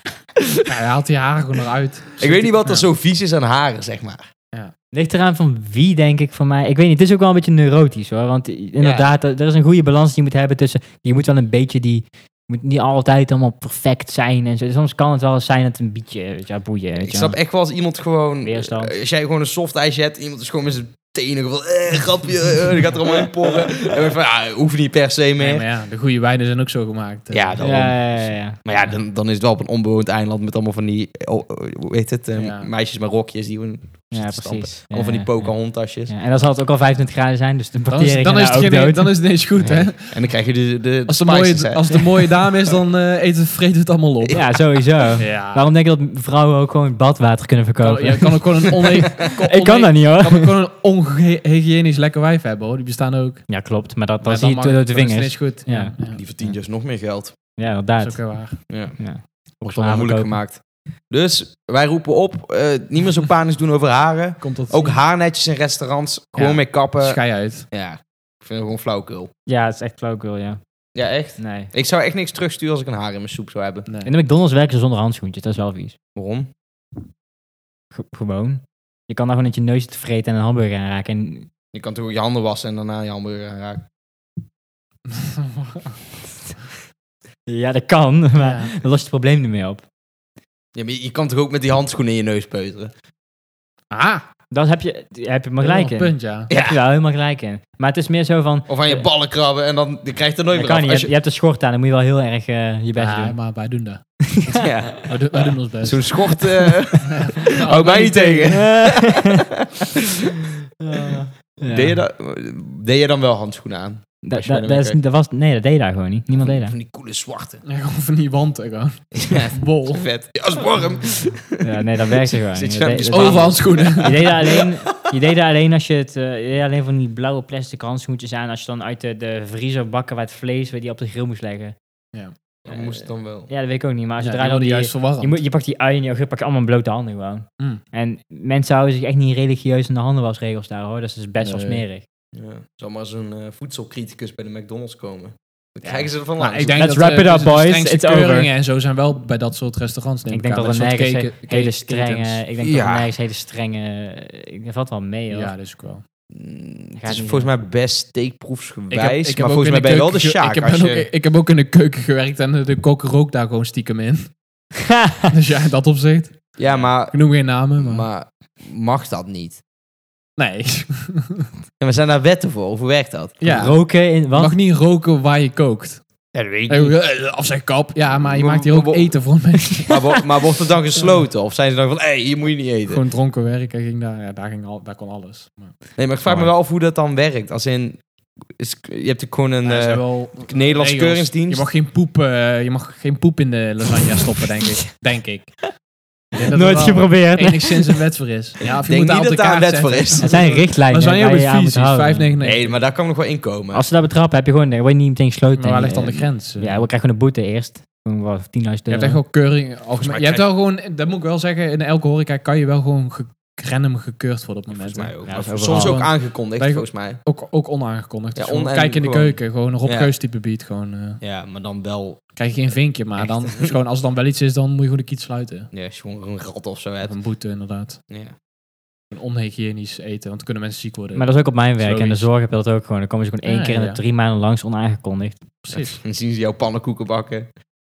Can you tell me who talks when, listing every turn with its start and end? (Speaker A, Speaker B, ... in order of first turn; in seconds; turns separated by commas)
Speaker A: 0.7-2.9, Speaker B: 2.2-4.2, Speaker C: 4.9-17.4, Speaker B: 8.8-9.1, Speaker B: 17.0-25.6, Speaker C: 18.4-18.9, Speaker A: 25.4-27.9, Speaker B: 27.3-36.1, Speaker C: 27.6-28.9, Speaker A: 32.4-32.7, Speaker C: 34.1-39.3, Speaker A: 37.9-40.3, Speaker B: 39.6-42.3, Speaker A: 41.1-44.5, Speaker C: 44.3-50.5, Speaker A: 45.2-45.6, Speaker A: 47.8-53.5, Speaker C: 53.5-56.5, Speaker A: 54.2-56.2, Speaker B: 56.1-57.4, Speaker C: 57.5-58.3, Speaker A: 58.0-58.6, Speaker B: 58.7-59.0, Speaker C: 59.0-60.4, Speaker B: 59.6-69.3, Speaker A: 64.4-65.0, Speaker A: 66.3-67.7, Speaker C: 69.5-70.6, Speaker B: 70.9-73.8, Speaker C: 71.4-71.7, Speaker A: 73.8-74.1, Speaker C: 74.0-76.0, Speaker B: 76.1-76.5, Speaker C: 77.9-81.5, Speaker B: 81.7-83.8, Speaker A: 85.1-85.9, Speaker C: 87.5-89.8, Speaker A: 88.4-88.7, Speaker B: 90.7-92.9, Speaker A: 93.9-94.2, Speaker C: 94.5-99.0, Speaker A: 95.6-96.5, Speaker B: 96.5-96.8, Speaker B: 98.7-101.1, Speaker C: 100.5-103.4, Speaker A: 102.9-106.4, Speaker C: 104.2-104.7, Speaker B: 104.5-109.4, Speaker A: 107.0-108.7, Speaker C: 108.5-109.3, Speaker C: 110.8-112.0, Speaker B: 111.5-115.0, Speaker C: 114.2-116.7, Speaker B: 116.4-117.6, Speaker A: 117.6-120.1, Speaker B: 119.1-124.6, Speaker C: 121.6-131.7, Speaker A: 123.0-124.3, Speaker B: 132.6-133.5, Speaker C: 132.7-142.0, Speaker A: 134.2-135.3, Speaker A: 141.4-141.8, Speaker B: 142.3-146.8, Speaker A: 145.8-152.4, Speaker C: 146.7-148.5, Speaker C: 150.3-155.5, Speaker B: 152.6-153.1, Speaker A: 155.3-156.0, Speaker B: 156.3-161.1, Speaker C: 157.0-157.5, Speaker A: 158.9-164.3, Speaker C: 164.9-165.3, Speaker A: 165.3-168.1, Speaker B: 166.6-169.6, Speaker A: 170.4-171.5, Speaker B: 171.8-173.4, Speaker A: 173.4-176.1, Speaker C: 173.4-174.6, Speaker B: 176.3-177.0, Speaker A: 176.7-180.2, Speaker B: 178.3-179.2, Speaker B: 179.7-183.0, Speaker A: 182.9-185.8, Speaker B: 186.0-188.0, Speaker B: 188.6-191.7, Speaker A: 189.6-195.8, Speaker A: 196.3-202.8, Speaker C: 196.5-197.9, Speaker B: 198.9-200.4, Speaker C: 200.2-202.3, Speaker B: 202.4-203.8, Speaker C: 203.7-209.2, Speaker A: 205.6-206.9, Speaker A: 208.9-221.2, Speaker B: 209.9-210.5, Speaker B: 214.7-217.2, Speaker C: 215.2-216.0, Speaker B: 218.3-220.1, Speaker B: 221.2-222.2, Speaker A: 222.3-225.7, Speaker B: 223.2-223.7, Speaker B: 225.7-227.1, Speaker A: 227.0-228.0, Speaker B: 228.1-228.3, Speaker A: 229.1-232.3, Speaker C: 231.1-235.6, Speaker A: 233.4-234.0, Speaker A: 235.6-236.0, Speaker B: 236.0-237.5